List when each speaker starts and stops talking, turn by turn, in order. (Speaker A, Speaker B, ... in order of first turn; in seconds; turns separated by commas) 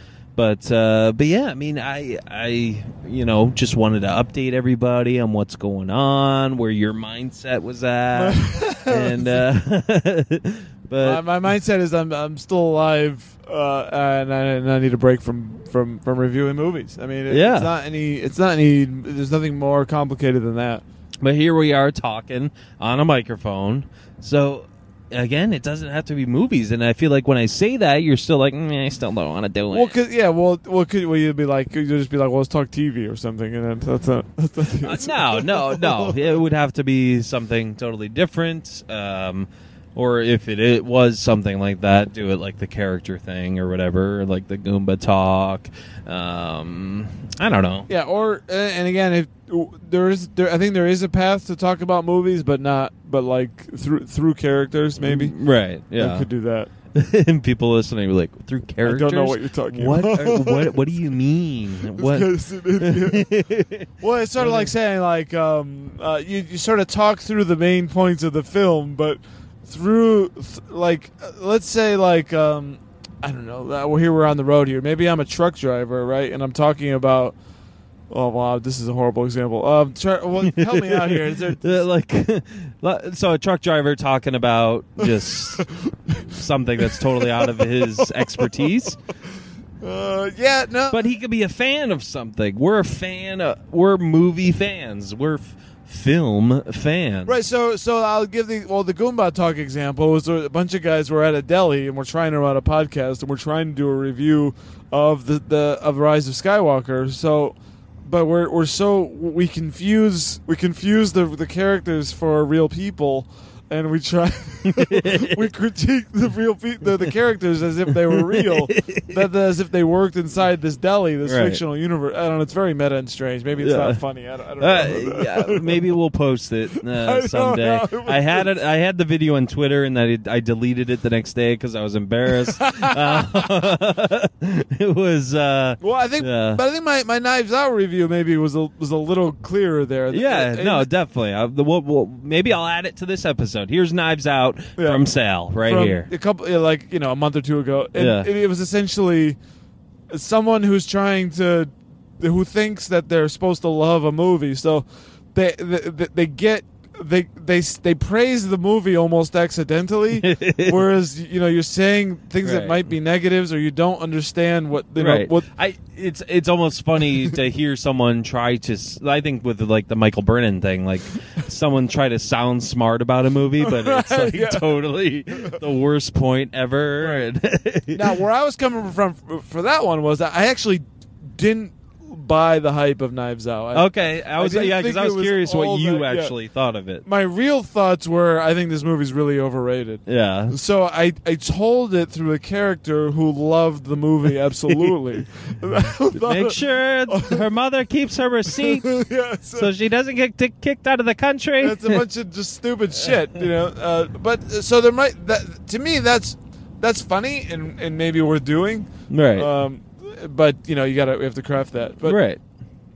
Speaker A: 0.3-11.2, Speaker B: 8.1-9.5, Speaker B: 11.0-20.8, Speaker A: 17.3-17.7, Speaker A: 21.2-29.9, Speaker B: 29.7-36.3, Speaker A: 34.8-47.9, Speaker B: 47.9-55.3, Speaker A: 55.0-56.3, Speaker B: 56.0-56.7, Speaker A: 56.9-63.9, Speaker B: 58.8-60.9, Speaker B: 61.9-63.3, Speaker B: 64.0-77.3, Speaker A: 64.4-64.7, Speaker B: 78.1-81.8, Speaker A: 80.5-89.0, Speaker B: 85.0-86.2, Speaker B: 86.8-88.9, Speaker B: 89.8-91.1, Speaker A: 90.9-97.4, Speaker B: 97.2-125.9, Speaker A: 114.7-115.4, Speaker A: 118.1-119.2, Speaker A: 121.2-121.6, Speaker A: 123.6-124.0, Speaker A: 124.6-136.6, Speaker B: 126.8-128.5, Speaker B: 132.3-133.7, Speaker B: 135.8-140.9, Speaker A: 140.1-146.1, Speaker B: 144.8-145.0, Speaker B: 145.6-149.4, Speaker A: 147.9-148.3, Speaker B: 150.1-165.4, Speaker A: 160.2-160.8, Speaker A: 162.4-162.9, Speaker A: 165.0-178.2, Speaker B: 173.6-174.7, Speaker B: 175.3-175.6, Speaker B: 177.0-177.2, Speaker B: 177.9-186.3, Speaker A: 183.7-187.1, Speaker B: 187.0-197.5, Speaker A: 190.1-190.6, Speaker A: 196.1-198.9, Speaker B: 198.5-199.7, Speaker A: 199.5-202.0, Speaker B: 201.6-212.2, Speaker A: 209.1-209.5, Speaker A: 212.0-212.4